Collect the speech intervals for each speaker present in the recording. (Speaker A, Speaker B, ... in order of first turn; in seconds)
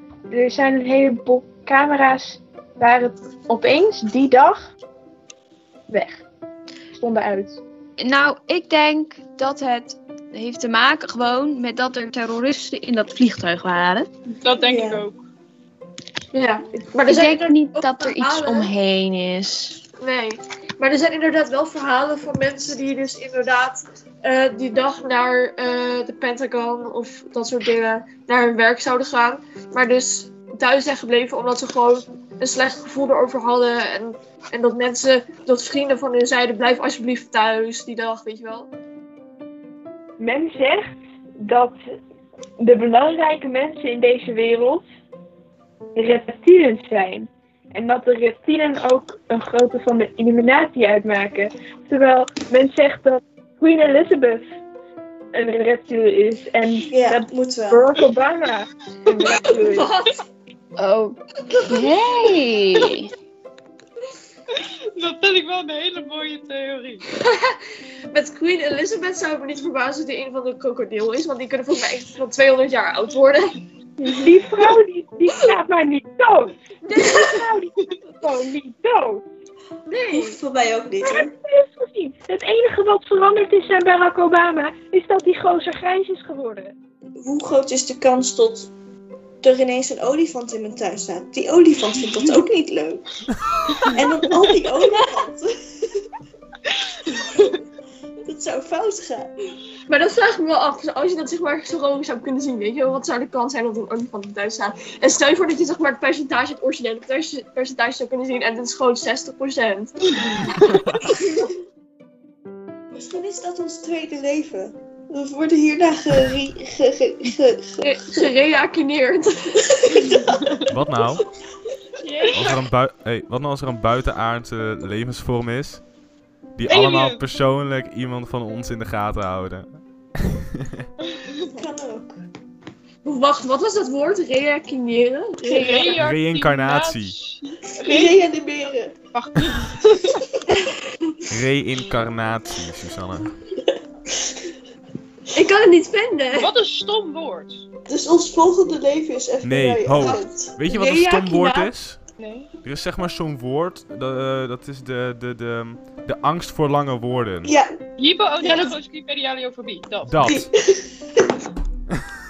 Speaker A: 0.3-4.7, 5.9-6.2, 6.9-7.6, 40.2-41.8, 42.6-44.8, 46.0-54.4, 55.3-59.9, 74.0-76.6, 77.2-79.2, 81.0-86.7
Speaker B: 8.0-14.1, 17.1-19.8, 60.8-61.2, 61.7-63.1
Speaker C: 14.4-15.2, 64.5-67.1, 122.0-122.6, 126.7-127.2, 135.4-138.2, 139.1-140.1, 146.3-147.6, 152.2-152.5, 158.0-160.2
Speaker D: 14.6-15.1, 56.9-57.9, 80.1-81.3, 87.2-88.7, 89.4-93.0, 93.9-95.5, 97.1-97.6, 98.3-99.3, 112.9-118.3, 120.0-120.3, 131.5-132.2, 137.8-138.9, 147.9-150.6, 157.4-157.7, 158.4-158.8, 160.2-160.8
Speaker E: 16.3-18.8, 20.0-38.7, 59.3-60.1, 67.2-67.6, 68.1-73.5, 76.8-77.5, 79.9-80.4, 99.9-110.5, 117.8-119.8, 133.1-136.0, 145.3-146.5, 150.7-151.7
Speaker F: 120.7-121.2, 122.3-125.8, 126.5-129.8, 136.0-137.2, 141.3-143.3, 149.4-152.0, 152.6-157.6, 160.1-160.5